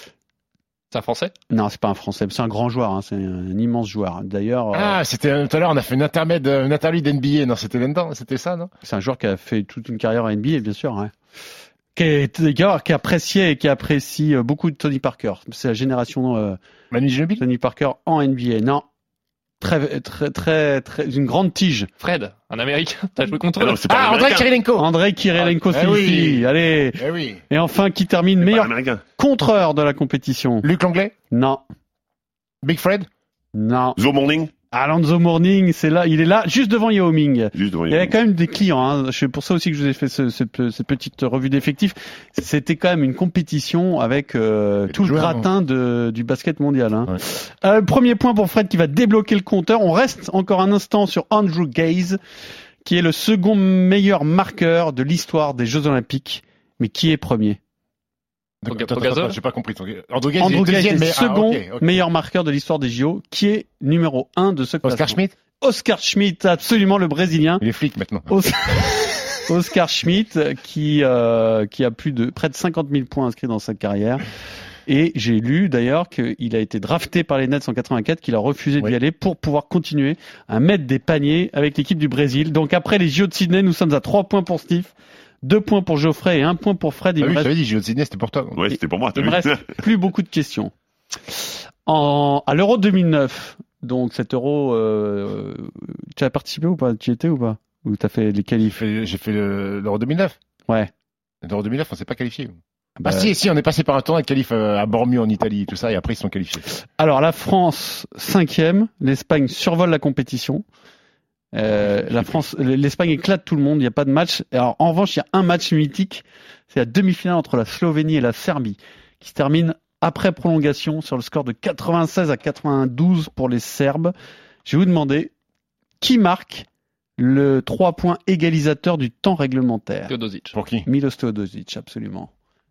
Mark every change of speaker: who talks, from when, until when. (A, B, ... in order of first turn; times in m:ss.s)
0:00.9-0:01.3 A
0:01.5-0:05.0 B
0:04.7-0:08.7 C
0:08.8-0:11.1 B
0:12.0-0:16.6 B
0:16.9-0:17.4 C
0:17.4-0:18.8 B
0:19.6-0:21.9 B
0:22.0-0:23.8 A
0:23.6-0:24.5 D
0:23.8-0:27.4 C
0:24.8-0:30.7 B
0:28.4-0:29.0 D
0:30.6-0:31.1 C
0:31.3-0:31.6 B
0:32.6-0:33.1 C
0:33.5-0:34.0 B
0:34.0-0:34.5 D
0:34.7-0:52.2 B
0:37.5-0:38.1 D
0:44.9-0:45.5 C
0:52.8-0:57.6 B
0:58.6-1:02.0 C
0:58.7-0:59.4 A
1:00.4-1:07.6 B
1:04.8-1:05.3 C
1:07.6-1:09.2 C
1:08.3-1:14.2 B
1:14.8-1:24.9 B
1:25.4-1:27.5 B
1:27.2-1:28.6 C
1:28.6-1:29.7 D
1:28.7-1:30.7 B
1:31.3-1:38.7 B
1:38.6-1:40.4 C
1:41.4-1:46.6 C
1:43.0-1:43.3 B
1:46.7-1:50.6 B
1:51.5-2:04.1 B
1:52.0-1:52.4 C
2:04.6-2:05.3 B
2:06.0-2:06.6 B
2:07.2-2:10.1 B
2:10.1-2:10.5 A
2:10.5-2:10.9 C
2:10.8-2:12.3 B